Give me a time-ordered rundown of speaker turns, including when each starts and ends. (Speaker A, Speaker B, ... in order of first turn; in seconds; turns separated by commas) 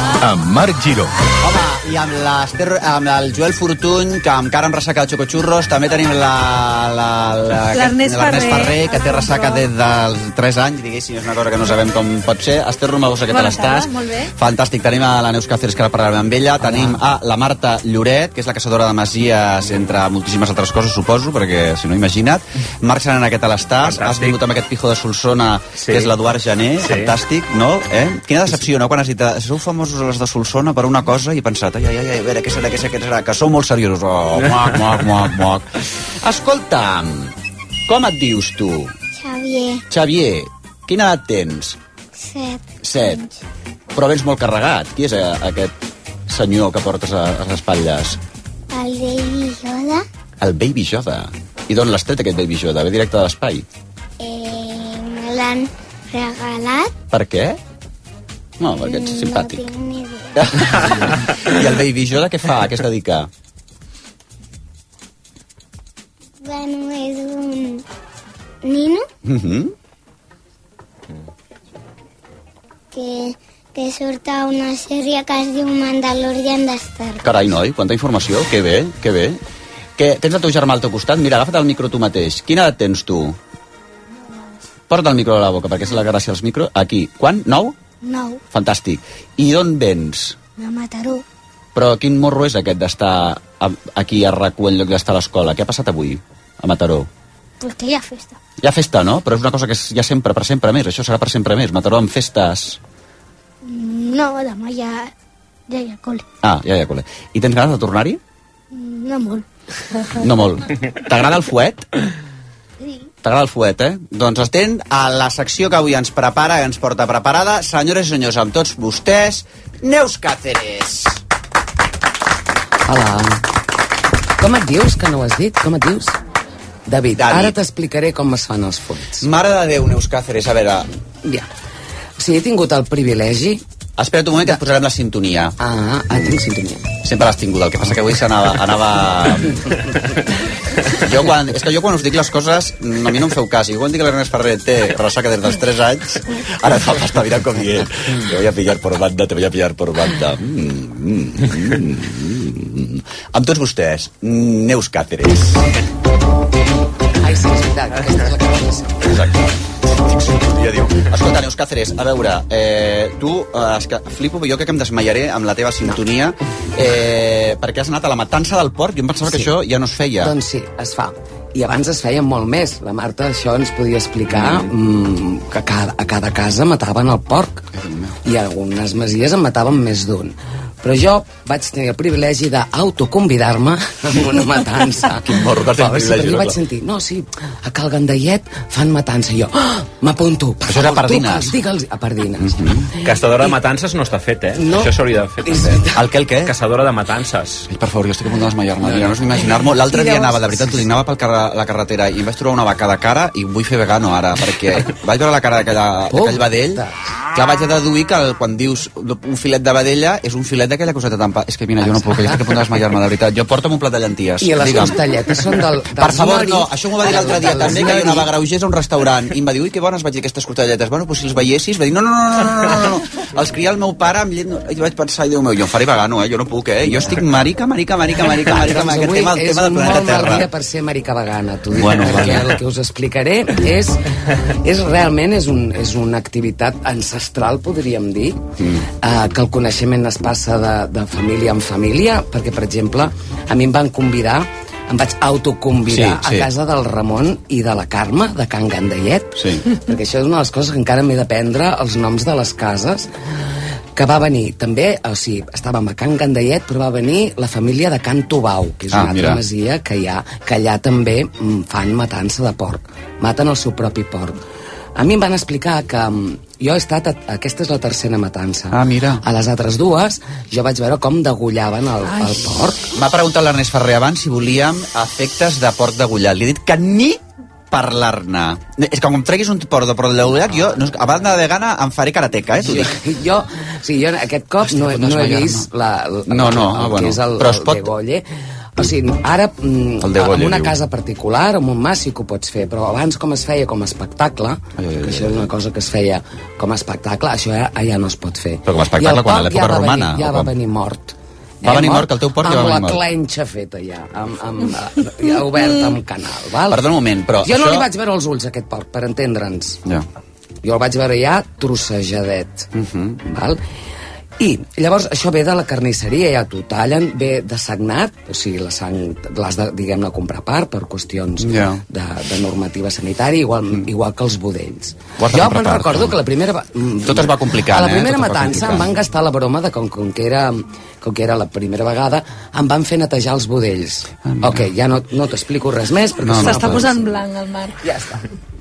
Speaker A: 1.4-35.7, Speaker B: 7.7-9.7, Speaker B: 13.3-14.3, Speaker C: 23.8-24.4, Speaker C: 25.8-26.1, Speaker C: 26.8-27.1, Speaker C: 34.4-34.8, Speaker A: 36.2-37.3, Speaker A: 37.9-38.9, Speaker D: 39.2-39.8, Speaker A: 39.9-41.8, Speaker D: 42.1-43.4, Speaker A: 42.8-43.2, Speaker A: 43.9-45.7, Speaker A: 46.3-48.2, Speaker D: 48.7-50.0, Speaker A: 50.4-53.6, Speaker D: 54.2-56.9, Speaker A: 57.1-57.6, Speaker A: 58.6-59.6, Speaker D: 58.8-60.4, Speaker A: 60.3-63.3, Speaker D: 66.4-67.8, Speaker D: 68.6-69.0, Speaker A: 69.2-69.7, Speaker D: 72.9-77.2, Speaker A: 77.2-79.4, Speaker A: 80.0-83.4, Speaker A: 84.9-87.8, Speaker D: 88.0-88.4, Speaker A: 88.5-90.4, Speaker D: 90.6-91.2, Speaker A: 91.7-97.1, Speaker D: 97.6-98.4, Speaker A: 98.6-102.8, Speaker D: 103.6-105.1, Speaker D: 105.7-106.2, Speaker A: 106.4-108.2, Speaker D: 108.7-109.4, Speaker A: 110.2-111.8, Speaker D: 112.8-113.1, Speaker A: 113.2-121.2, Speaker E: 122.9-123.4, Speaker E: 124.4-126.2, Speaker E: 126.9-129.3, Speaker A: 127.1-127.5, Speaker A: 129.2-130.9, Speaker E: 132.2-133.6, Speaker A: 134.0-135.6, Speaker E: 135.6-136.9, Speaker A: 137.0-139.7, Speaker A: 140.9-155.7, Speaker E: 157.2-159.0, Speaker A: 159.0-170.3, Speaker E: 169.3-169.5, Speaker E: 170.2-177.7, Speaker A: 174.3-174.7, Speaker A: 177.7-178.2, Speaker E: 178.2-193.6, Speaker A: 185.2-186.6, Speaker A: 190.7-191.6, Speaker A: 192.4-192.9, Speaker C: 193.0-195.8, Speaker E: 194.5-196.0, Speaker A: 195.9-196.5, Speaker C: 196.4-197.7, Speaker A: 197.7-215.0, Speaker E: 199.8-200.8, Speaker E: 206.1-206.9, Speaker E: 211.8-212.4, Speaker E: 214.4-218.3, Speaker A: 215.9-230.5, Speaker E: 228.5-234.0, Speaker A: 231.7-232.5, Speaker E: 234.6-238.4, Speaker A: 238.6-238.8, Speaker E: 239.0-253.1, Speaker A: 245.9-246.5, Speaker A: 249.4-249.6, Speaker E: 253.9-264.4, Speaker A: 258.9-259.4, Speaker E: 264.9-272.8, Speaker A: 268.7-269.2, Speaker A: 272.9-277.2, Speaker A: 277.7-282.9, Speaker E: 282.6-288.2, Speaker A: 284.6-285.7, Speaker A: 286.3-287.9, Speaker E: 288.8-306.8, Speaker A: 290.0-290.8, Speaker A: 294.8-295.5, Speaker A: 298.6-300.5, Speaker A: 301.6-303.0, Speaker A: 306.7-307.9, Speaker E: 307.4-309.8, Speaker E: 310.6-312.7, Speaker A: 312.7-313.2, Speaker E: 313.2-313.6, Speaker E: 314.4-337.2, Speaker A: 321.4-321.8, Speaker A: 325.2-326.2, Speaker A: 327.0-328.9, Speaker A: 334.2-334.7, Speaker A: 336.2-336.9, Speaker B: 336.3-337.8, Speaker E: 337.8-338.2